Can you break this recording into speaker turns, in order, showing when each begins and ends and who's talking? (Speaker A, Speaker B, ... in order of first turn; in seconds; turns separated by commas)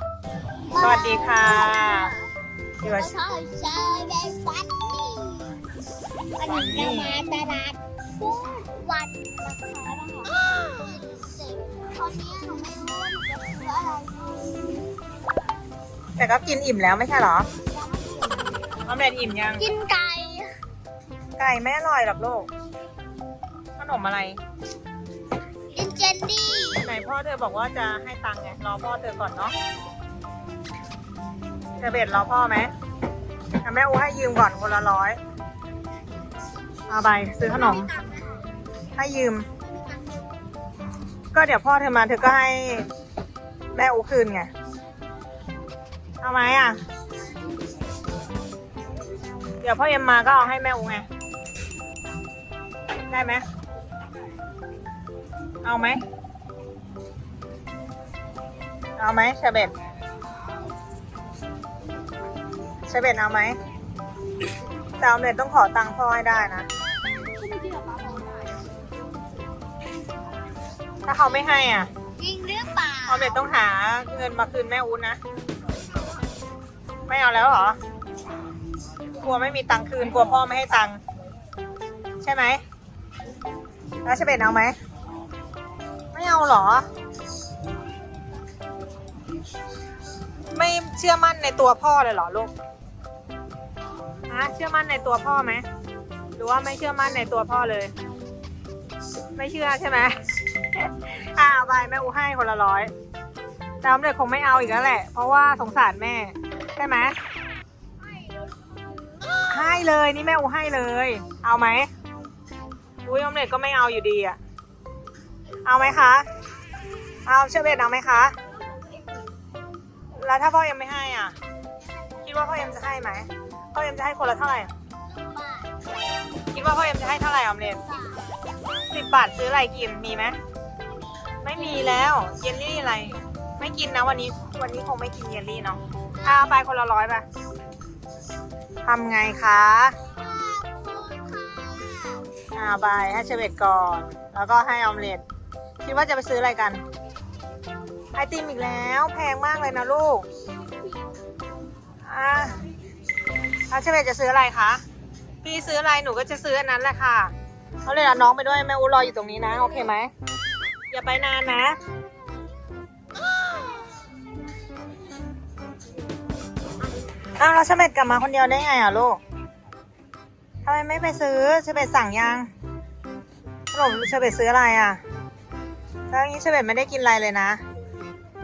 Speaker A: 0.7-2.2, Speaker B: 0.8-2.1, Speaker A: 2.8-5.6, Speaker B: 2.8-3.1, Speaker A: 6.3-14.9, Speaker B: 6.5-7.1, Speaker B: 16.2-17.5, Speaker A: 17.6-18.7, Speaker B: 18.9-19.6, Speaker A: 19.5-20.5, Speaker B: 21.4-22.5, Speaker B: 23.8-24.4, Speaker A: 25.7-26.9, Speaker B: 26.8-29.6, Speaker B: 31.8-32.7, Speaker B: 33.6-35.2, Speaker B: 36.9-37.9, Speaker A: 37.4-38.4, Speaker B: 39.0-39.5, Speaker A: 39.7-40.0, Speaker B: 41.3-42.9, Speaker B: 43.7-44.5, Speaker B: 46.2-46.8, Speaker B: 49.6-51.0, Speaker B: 53.1-53.4, Speaker B: 55.6-56.0, Speaker B: 59.0-59.7, Speaker B: 62.9-63.6, Speaker B: 65.0-66.7, Speaker A: 67.5-68.2, Speaker B: 71.0-71.9, Speaker A: 72.2-73.5, Speaker B: 73.1-75.2, Speaker B: 77.1-77.8, Speaker B: 79.2-81.0, Speaker B: 82.2-82.6, Speaker B: 84.0-84.8, Speaker B: 86.1-86.8, Speaker B: 90.5-92.5, Speaker B: 94.3-95.6, Speaker B: 96.4-97.9, Speaker B: 99.4-100.1, Speaker B: 100.8-102.9, Speaker B: 103.8-107.2, Speaker A: 109.0-109.9, Speaker B: 109.5-111.9, Speaker B: 113.0-114.4, Speaker B: 115.6-116.3, Speaker B: 117.2-118.4, Speaker A: 118.7-119.0, Speaker B: 120.1-121.4, Speaker B: 122.2-124.7, Speaker A: 125.0-125.8, Speaker B: 126.5-127.8, Speaker A: 127.7-128.3, Speaker B: 128.9-130.4, Speaker B: 131.4-137.2, Speaker A: 131.4-132.2, Speaker B: 138.8-140.0, Speaker A: 140.2-142.2, Speaker B: 142.5-145.2, Speaker B: 145.8-146.8, Speaker B: 148.2-150.2, Speaker B: 152.1-152.6, Speaker B: 153.7-154.8, Speaker B: 155.4-157.3, Speaker B: 157.8-160.1, Speaker B: 160.9-161.8, Speaker A: 161.8-162.7, Speaker A: 163.4-164.1, Speaker B: 167.4-169.2, Speaker B: 170.7-172.5, Speaker B: 173.7-175.0, Speaker B: 176.1-177.6